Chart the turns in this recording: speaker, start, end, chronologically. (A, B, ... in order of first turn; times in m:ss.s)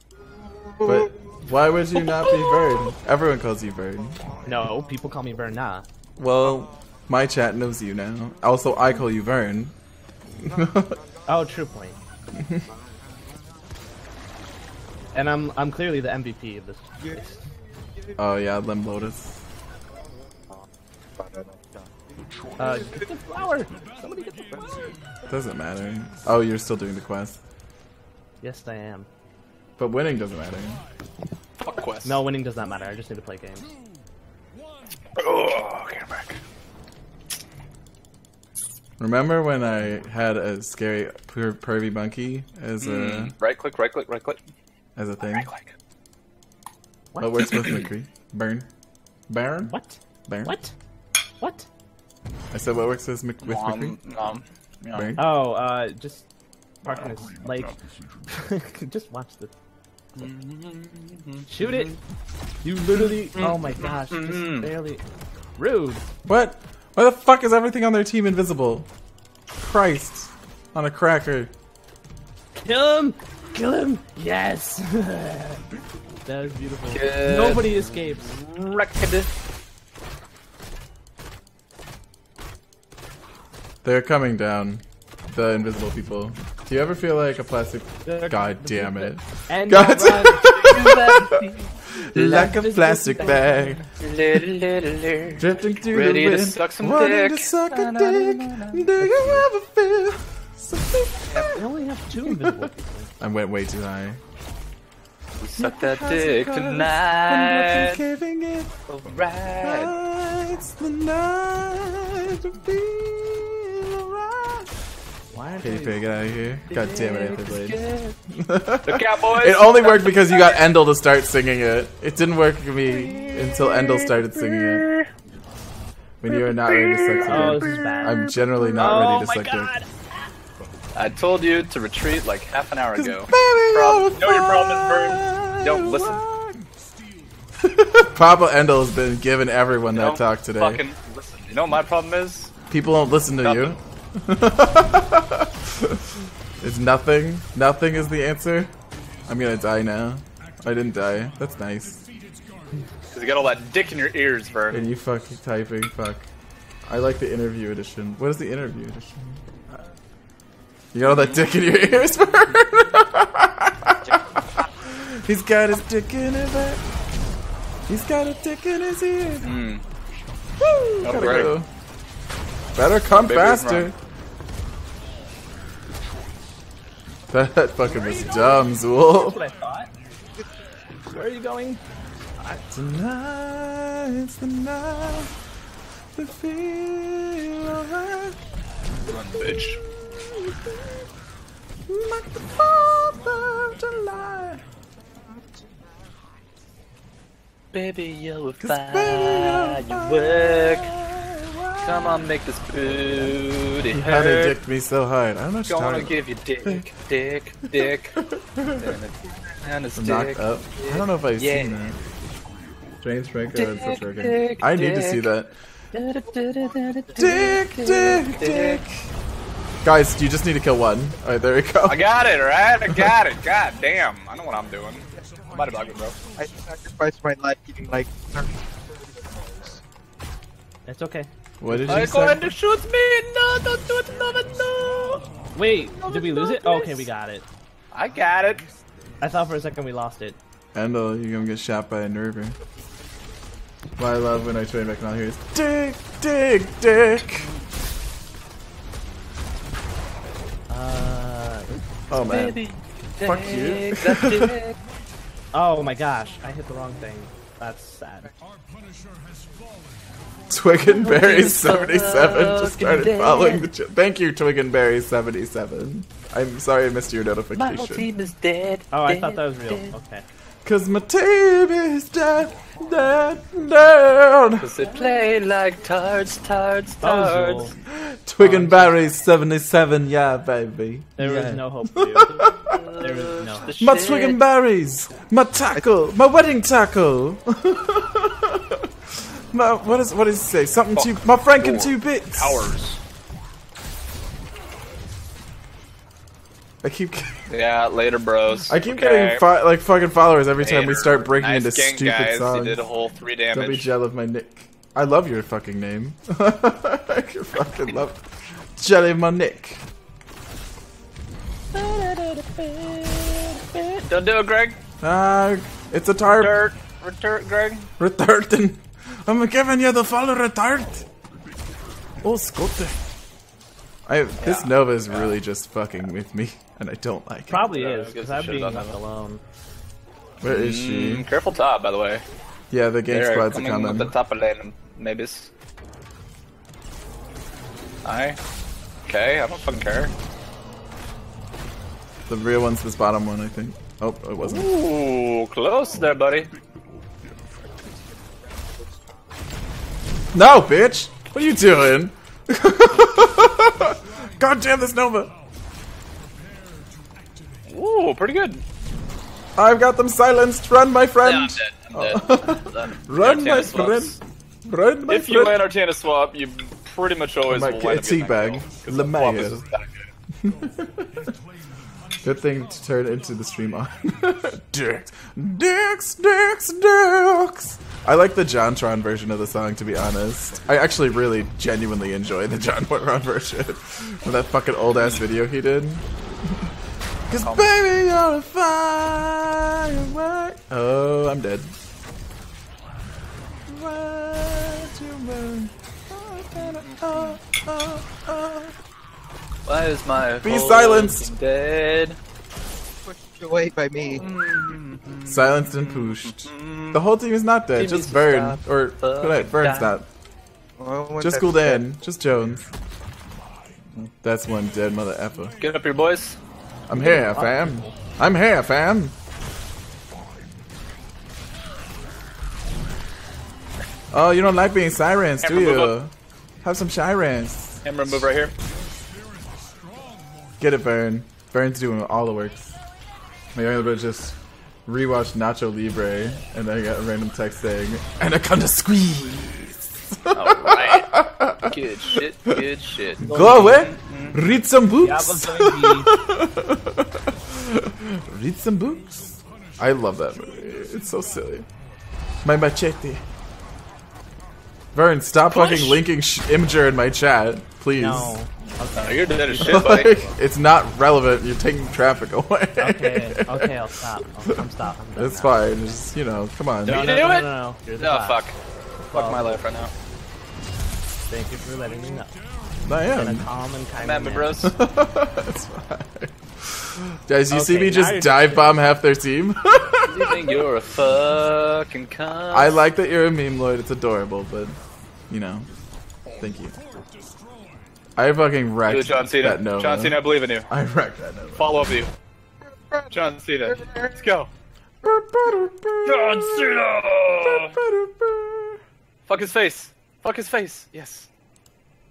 0:00.4-0:01.0 A
0:00.8-0:04.2 B
0:04.4-0:05.8 C
0:06.2-0:09.7 B
0:10.4-0:11.0 B
0:10.6-0:10.9 A
0:11.3-0:12.0 C
0:12.4-0:12.6 B
0:15.1-0:17.4 C
0:17.0-0:18.1 A
0:18.2-0:19.4 B
0:21.2-0:21.9 A
0:22.6-0:24.9 C
0:22.6-0:23.1 A
0:24.4-0:24.7 A
0:25.2-0:27.4 B
0:28.4-0:29.1 C
0:29.8-0:30.8 B
0:31.6-0:32.2 D
0:32.0-0:33.8 C
0:35.2-0:36.4 D
0:39.0-0:43.3 B
0:42.8-0:44.4 D
0:45.0-0:45.5 B
0:45.2-0:45.7 D
0:47.1-0:47.8 C
0:47.2-0:48.7 B
0:49.3-0:49.7 B
0:49.6-0:50.7 C
0:50.2-0:50.6 B
0:51.4-0:51.7 C
0:52.5-0:54.0 B
0:53.4-0:55.1 D
0:54.9-0:55.4 B
0:55.2-0:56.3 C
0:56.8-0:59.5 C
1:00.2-1:01.9 D
1:01.5-1:02.0 C
1:02.6-1:05.0 C
1:02.9-1:04.7 D
1:05.6-1:06.1 C
1:06.2-1:08.9 B
1:09.6-1:11.5 B
1:12.6-1:15.6 C
1:16.2-1:18.4 C
1:16.9-1:19.3 D
1:23.8-1:33.8 B
1:28.0-1:31.6 C
1:29.9-1:31.5 D
1:32.1-1:32.6 D
1:32.2-1:33.9 C
1:34.0-1:39.4 D
1:35.4-1:41.6 B
1:41.3-1:41.6 A
1:41.5-1:43.1 C
1:42.2-1:44.2 B
1:45.4-1:48.0 D
1:45.6-1:48.8 B
1:48.9-1:49.9 D
1:49.6-1:54.7 B
1:55.3-1:56.0 C
1:55.6-2:04.9 B
1:56.7-1:58.2 D
1:58.8-2:00.6 D
2:02.9-2:05.1 D
2:06.2-2:09.7 B
2:06.3-2:08.2 D
2:07.2-2:10.1 C
2:10.9-2:16.2 D
2:12.9-2:16.6 B
2:17.6-2:20.8 B
2:19.9-2:22.5 D
2:22.7-2:28.7 B
2:23.4-2:23.8 D
2:29.2-2:32.0 B
2:33.1-2:34.9 D
2:34.7-2:36.3 B
2:36.9-2:39.8 B
2:40.9-2:46.8 B
2:41.1-2:41.4 D
2:47.9-2:49.6 B
2:49.4-2:49.8 D
2:50.6-2:51.7 B
2:51.0-2:51.5 D
2:52.7-2:53.9 B
2:53.1-2:53.9 D
2:57.3-2:59.4 B
2:57.8-2:59.9 C
3:01.1-3:01.8 C
3:02.7-3:05.3 B
3:06.1-3:08.4 B
3:09.0-3:09.8 D
3:09.3-3:11.0 B
3:11.9-3:14.6 B
3:17.7-3:20.9 D
3:18.6-3:23.3 B
3:21.8-3:24.6 D
3:23.9-3:26.9 B
3:25.6-3:31.9 D
3:27.7-3:29.0 B
3:29.9-3:32.0 B
3:33.0-3:35.5 B
3:33.4-3:35.3 D
3:35.9-3:38.8 D
3:36.6-3:37.5 A
3:37.1-3:39.1 B
3:39.8-3:42.0 B
3:41.8-3:46.2 D
3:45.2-3:45.5 A
3:46.3-3:49.8 A
3:50.8-3:51.3 C
3:51.6-3:52.5 B
3:51.9-3:55.2 D
3:55.5-3:57.4 C
3:55.8-3:57.0 A
3:57.9-3:58.7 D
3:59.2-4:00.4 C
4:00.7-4:02.6 B
4:04.0-4:07.5 B
4:10.7-4:12.4 C
4:12.1-4:12.6 B
4:12.2-4:14.8 D
4:13.2-4:14.5 B
4:15.5-4:18.4 C
4:20.5-4:28.1 B
4:20.8-4:23.7 D
4:27.5-4:30.0 D
4:28.9-4:30.2 C
4:30.6-4:34.7 B
4:34.6-4:37.7 D
4:37.0-4:37.7 C
4:37.8-4:42.8 B
4:38.4-4:39.1 C
4:41.2-4:42.4 C
4:42.5-4:44.4 D
4:43.0-4:43.8 C
4:43.8-4:52.7 B
4:50.9-4:53.0 D
4:56.8-4:57.4 B
4:57.5-4:59.4 D
4:58.7-5:02.8 B
5:00.6-5:03.9 D
5:03.5-5:09.8 B
5:11.7-5:14.8 D
5:15.0-5:16.6 B
5:16.2-5:17.9 D
5:18.0-5:21.0 B
5:22.2-5:23.0 B
5:24.1-5:27.7 B
5:24.4-5:25.4 D
5:27.5-5:29.4 C
5:27.5-5:29.0 D
5:30.4-5:31.3 B
5:30.4-5:32.2 D
5:32.7-5:34.1 B
5:33.1-5:35.5 D
5:38.0-5:38.4 D
5:39.1-5:40.1 D
5:42.3-5:44.7 B
5:44.4-5:46.5 D
5:47.8-5:49.0 A
5:50.3-5:55.3 B
5:57.7-5:58.6 D
5:59.6-6:05.7 B
6:01.2-6:04.2 D
6:05.0-6:09.9 D
6:07.4-6:09.6 B
6:10.4-6:11.3 B
6:12.2-6:26.7 B
6:27.3-6:31.7 B
6:27.3-6:27.8 D
6:33.7-6:38.7 B
6:36.6-6:37.4 D
6:39.6-6:42.2 D
6:40.4-6:41.3 B
6:43.0-6:44.2 A
6:44.1-6:47.0 D
6:45.2-6:50.1 B
6:47.7-6:50.0 D
6:50.8-6:51.9 A
6:51.2-6:52.7 B
6:54.2-6:55.6 B
6:55.6-6:56.4 D
6:56.9-6:59.1 B
6:57.0-6:57.9 C
7:04.1-7:06.1 B
7:05.4-7:06.0 D
7:06.6-7:08.2 B
7:07.8-7:08.5 D
7:10.6-7:12.8 B
7:13.5-7:22.6 B
7:20.3-7:24.4 D
7:23.2-7:23.9 C
7:23.2-7:31.6 B
7:25.0-7:26.1 C
7:32.4-7:33.2 B
7:34.9-7:38.4 B
7:35.5-7:36.0 D
7:37.9-7:40.4 C
7:38.9-7:40.2 D
7:39.6-7:43.9 B
7:42.8-7:45.7 C
7:44.4-7:47.1 B
7:46.8-7:48.6 D
7:46.8-7:48.5 C
7:49.1-7:49.6 C
7:49.1-7:49.9 D
7:51.3-7:52.3 C
7:52.8-7:53.5 B
7:53.0-7:54.6 C
7:54.0-7:54.7 D
7:54.6-8:00.7 B
7:57.5-7:58.8 C
8:00.0-8:02.8 D
8:02.5-8:04.8 B
8:05.3-8:05.7 B
8:06.4-8:06.8 B
8:08.2-8:12.0 B
8:08.8-8:10.7 D
8:11.5-8:12.1 D
8:12.8-8:14.1 A
8:13.1-8:14.5 D
8:15.0-8:16.8 B
8:16.0-8:17.8 D
8:17.3-8:18.8 B
8:19.2-8:21.3 D